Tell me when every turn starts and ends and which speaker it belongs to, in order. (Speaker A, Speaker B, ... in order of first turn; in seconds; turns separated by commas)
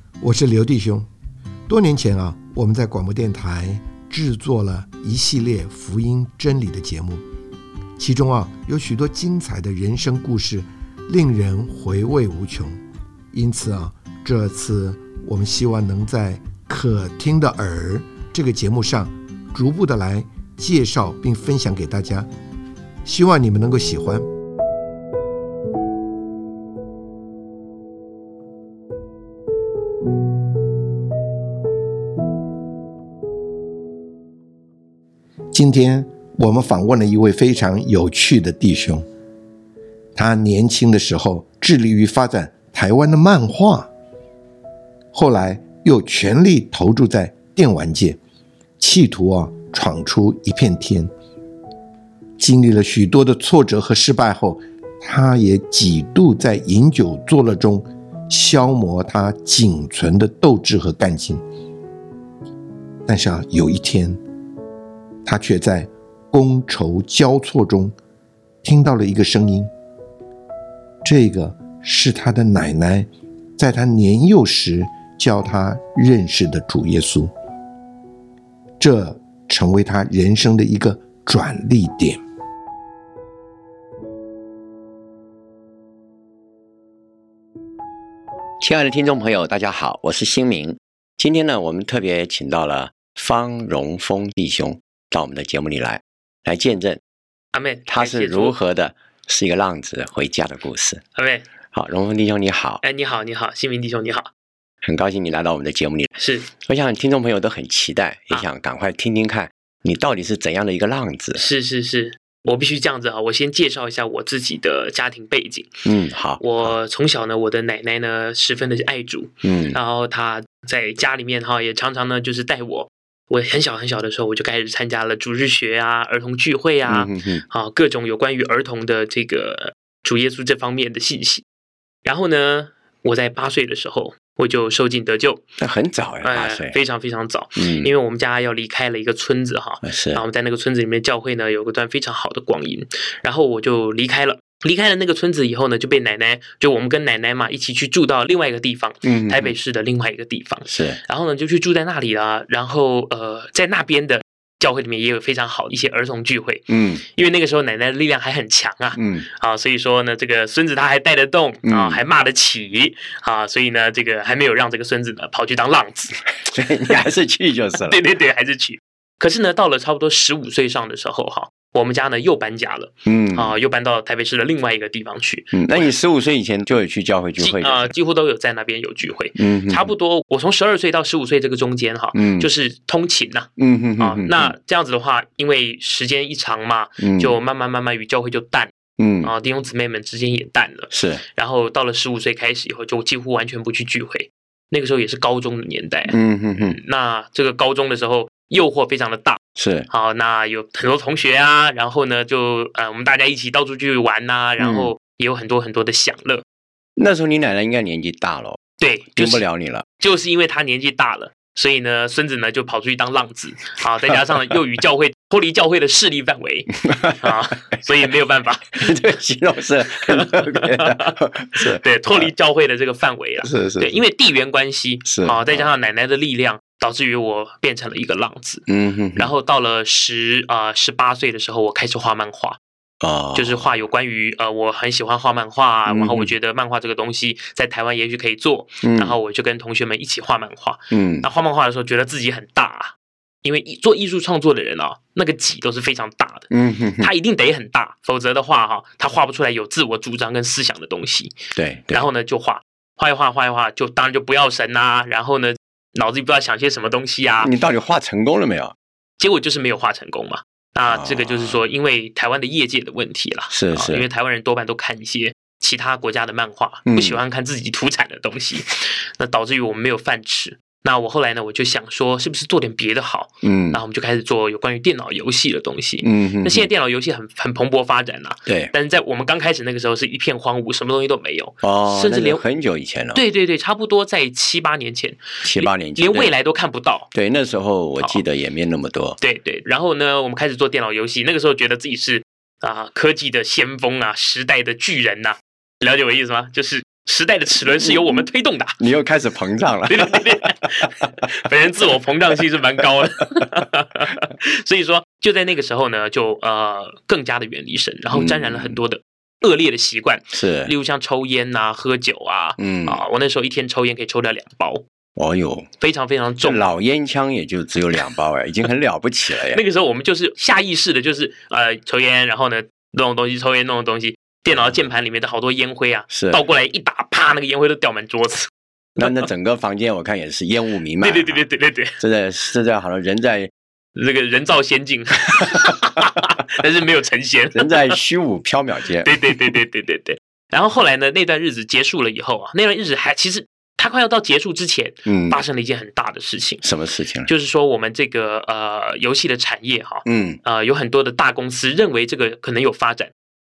Speaker A: 0.2-1.1, Speaker A: 1.7-7.2, Speaker A: 8.0-12.8, Speaker A: 13.3-22.3, Speaker A: 23.0-24.2, Speaker A: 35.5-39.0, Speaker A: 40.1-43.9, Speaker A: 45.1-48.2, Speaker A: 48.8-51.1, Speaker A: 52.4-61.4, Speaker A: 63.0-64.2, Speaker A: 65.2-67.9, Speaker A: 68.6-69.7, Speaker A: 71.0-77.3, Speaker A: 78.8-82.2, Speaker B: 88.6-97.0, Speaker C: 97.5-98.5, Speaker B: 97.9-101.0, Speaker C: 101.2-101.4, Speaker B: 101.7-102.8, Speaker C: 102.8-104.3, Speaker B: 104.8-111.4, Speaker C: 106.2-106.5, Speaker C: 111.3-115.8, Speaker B: 115.8-116.7, Speaker C: 116.4-131.4, Speaker B: 119.4-119.8, Speaker B: 126.8-127.4, Speaker C: 132.0-135.4, Speaker B: 135.6-136.8, Speaker C: 136.2-166.2, Speaker B: 137.6-137.9, Speaker B: 139.8-140.2, Speaker B: 149.0-149.5, Speaker B: 150.7-151.0, Speaker B: 156.7-157.0, Speaker B: 158.9-159.2, Speaker B: 161.6-162.0, Speaker B: 166.4-168.0, Speaker C: 167.8-175.9, Speaker B: 173.0-173.5, Speaker B: 175.5-177.9, Speaker C: 177.4-188.7, Speaker B: 179.3-179.9, Speaker B: 182.1-182.5, Speaker B: 183.6-184.5, Speaker B: 187.0-187.4, Speaker B: 189.0-189.3, Speaker C: 189.2-206.4, Speaker B: 190.9-191.2, Speaker B: 196.1-196.8, Speaker B: 199.6-199.9, Speaker B: 204.6-204.9, Speaker B: 207.0-208.6, Speaker C: 208.8-209.4, Speaker B: 209.1-209.8, Speaker C: 210.0-218.9, Speaker B: 216.8-217.7, Speaker B: 218.8-222.3, Speaker C: 220.1-228.6, Speaker B: 223.4-224.0, Speaker B: 225.0-225.7, Speaker B: 228.7-229.3, Speaker C: 229.2-232.6, Speaker B: 233.0-233.7, Speaker C: 233.3-246.5, Speaker B: 235.9-236.3, Speaker B: 238.8-239.1, Speaker B: 240.9-241.3, Speaker B: 246.5-247.1, Speaker C: 247.0-251.4, Speaker B: 251.5-252.1, Speaker C: 251.9-257.5, Speaker B: 257.4-258.7, Speaker C: 259.2-282.4, Speaker B: 260.9-261.6, Speaker B: 263.5-264.0, Speaker B: 266.9-267.2, Speaker B: 273.4-273.8, Speaker B: 276.0-276.7, Speaker B: 278.4-278.7, Speaker B: 281.6-283.2, Speaker C: 283.1-287.1, Speaker B: 285.4-286.3, Speaker B: 287.1-289.2, Speaker C: 289.2-298.8, Speaker B: 297.8-298.2, Speaker B: 298.8-300.3, Speaker C: 299.9-314.8, Speaker B: 308.1-308.8, Speaker B: 310.3-310.7, Speaker B: 312.6-313.0, Speaker B: 315.1-315.7, Speaker C: 315.8-316.6, Speaker B: 316.4-319.6, Speaker C: 319.5-329.2, Speaker B: 324.5-324.8, Speaker B: 326.1-326.4, Speaker B: 329.0-331.4, Speaker C: 331.0-332.0, Speaker B: 332.0-333.5, Speaker C: 333.9-338.0, Speaker B: 337.5-339.4, Speaker C: 339.0-346.6, Speaker B: 345.1-345.4, Speaker B: 346.6-347.3, Speaker C: 347.2-353.1, Speaker B: 350.1-350.4